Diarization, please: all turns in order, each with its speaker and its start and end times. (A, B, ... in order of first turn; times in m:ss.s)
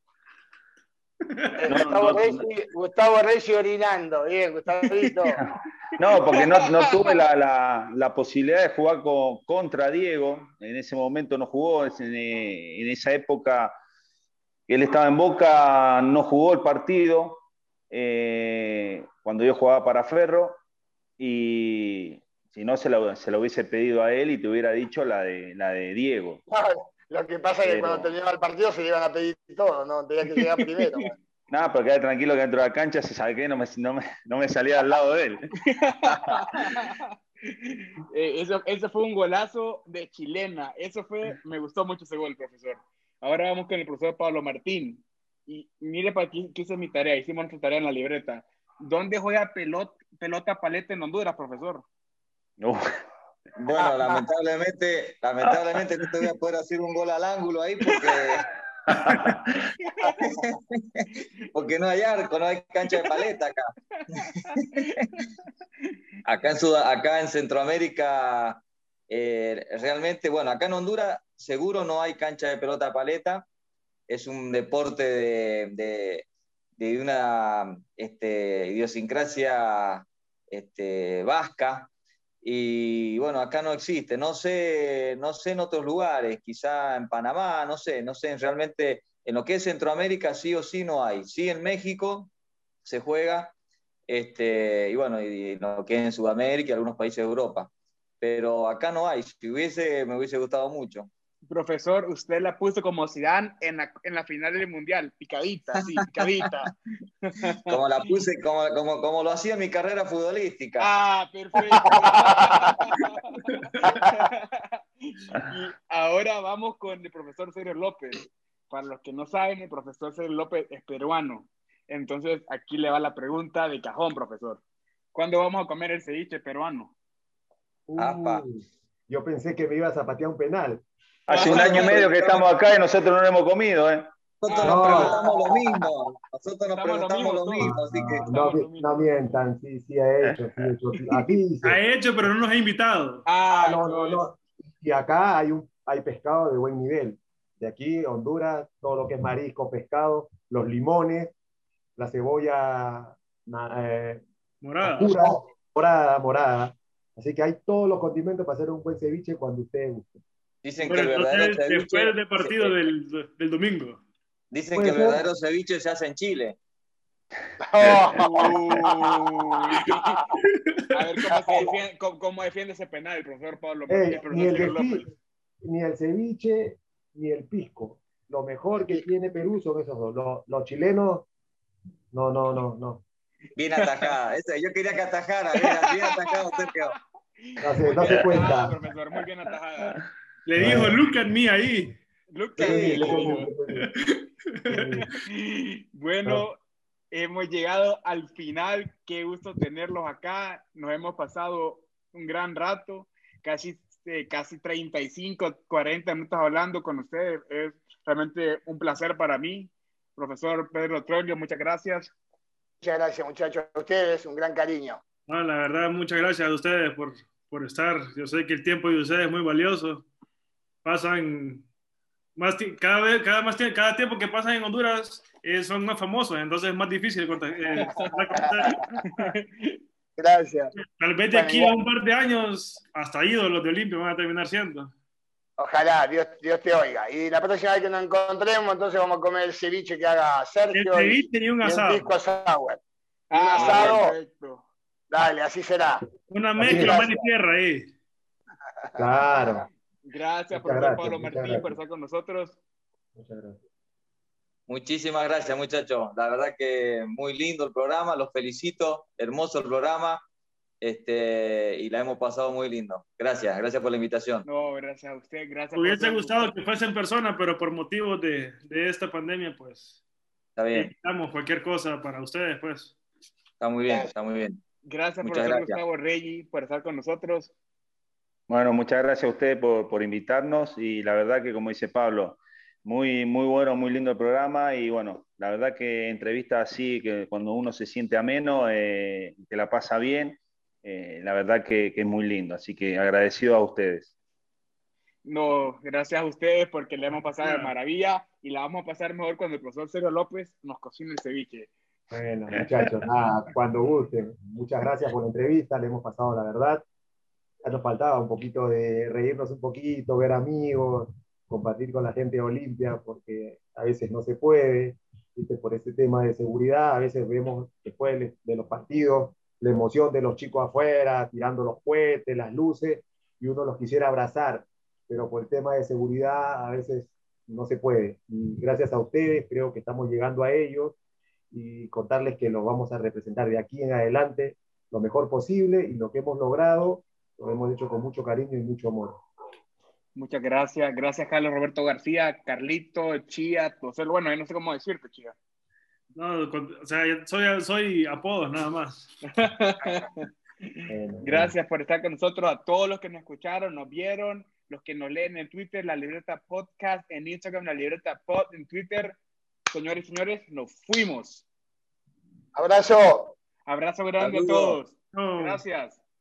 0:01.6-0:05.4 A
0:01.7-0:02.4 B
0:05.3-0:13.8 B
0:06.3-0:07.1 C
0:14.7-0:20.6 B
0:21.2-0:26.4 B
0:26.5-0:31.2 A
0:27.6-0:28.2 B
0:30.6-0:31.0 C
0:31.5-0:35.5 B
0:35.6-0:51.9 C
0:36.0-0:36.6 B
0:52.6-0:52.9 B
0:53.6-0:58.5 D
0:55.4-0:56.1 B
0:58.9-0:59.7 B
0:59.8-1:00.2 C
1:00.1-1:03.7 D
1:04.0-1:05.3 C
1:06.2-1:13.4 D
1:14.1-1:16.3 D
1:16.8-1:21.9 D
1:22.4-1:32.3 D
1:32.8-1:33.5 D
1:34.1-1:37.7 D
1:38.2-1:41.1 D
1:41.5-1:46.7 C
1:47.2-1:47.8 C
1:47.7-1:50.9 D
1:50.8-2:04.6 C
1:52.0-1:52.3 A
2:05.1-2:06.9 C
2:07.9-2:10.8 E
2:08.0-2:08.4 D
2:11.3-2:14.1 B
2:11.3-2:12.5 C
2:11.3-2:12.5 D
2:14.4-2:18.3 D
2:14.5-2:15.5 C
2:14.6-2:15.3 E
2:16.7-2:17.8 C
2:17.6-2:21.8 E
2:18.3-2:19.0 C
2:20.2-2:20.7 B
2:21.6-2:23.3 F
2:23.3-2:24.2 C
2:23.6-2:31.3 E
2:32.0-2:34.2 E
2:34.6-2:35.2 F
2:34.8-2:40.2 E
2:40.6-2:42.8 D
2:40.8-2:44.0 F
2:44.5-2:46.6 D
2:44.8-2:45.2 E
2:47.7-2:48.9 A
2:48.1-2:50.2 C
2:49.8-2:50.2 A
2:50.4-2:50.8 F
2:50.9-2:55.1 C
2:53.9-2:55.1 E
2:55.6-3:01.3 E
3:02.1-3:03.0 E
3:03.6-3:07.0 D
3:03.8-3:04.1 C
3:05.6-3:06.7 C
3:07.4-3:10.0 C
3:07.6-3:08.8 E
3:10.4-3:12.0 F
3:10.6-3:11.0 E
3:12.3-3:13.5 C
3:12.6-3:13.9 E
3:12.6-3:13.3 D
3:13.8-3:15.0 F
3:14.7-3:15.1 E
3:15.3-3:16.6 C
3:17.1-3:32.1 C
3:32.8-3:35.0 A
3:35.3-3:40.0 F
3:40.8-3:41.7 F
3:42.4-3:49.0 F
3:47.8-3:48.9 A
3:49.0-3:49.8 C
3:50.2-3:50.7 A
3:50.8-3:54.9 F
3:51.3-3:51.8 A
3:55.6-4:02.8 A
4:00.7-4:02.1 F
4:03.3-4:04.6 C
4:03.3-4:04.1 A
4:05.1-4:06.0 A
4:06.3-4:07.9 F
4:06.6-4:07.0 E
4:06.6-4:07.3 A
4:09.0-4:09.7 E
4:10.0-4:12.6 C
4:10.5-4:11.8 E
4:13.2-4:13.6 E
4:14.7-4:20.2 D
4:20.8-4:24.5 D
4:24.4-4:26.5 C
4:25.8-4:30.0 F
4:30.6-4:30.9 D
4:30.7-4:33.0 F
4:33.6-4:34.6 D
4:34.8-4:37.5 C
4:35.2-4:35.8 D
4:38.5-4:54.1 B
4:55.2-5:01.7 C
4:57.4-4:57.7 F
5:02.1-5:06.8 E
5:07.6-5:31.0 E
5:31.5-5:39.2 E
5:40.2-5:45.4 C
5:46.1-5:49.1 F
5:49.2-5:59.2 C
5:50.9-5:51.5 E
5:59.7-6:01.5 C
6:02.6-6:03.4 A
6:03.7-6:06.0 C
6:04.2-6:04.8 D
6:05.1-6:05.6 F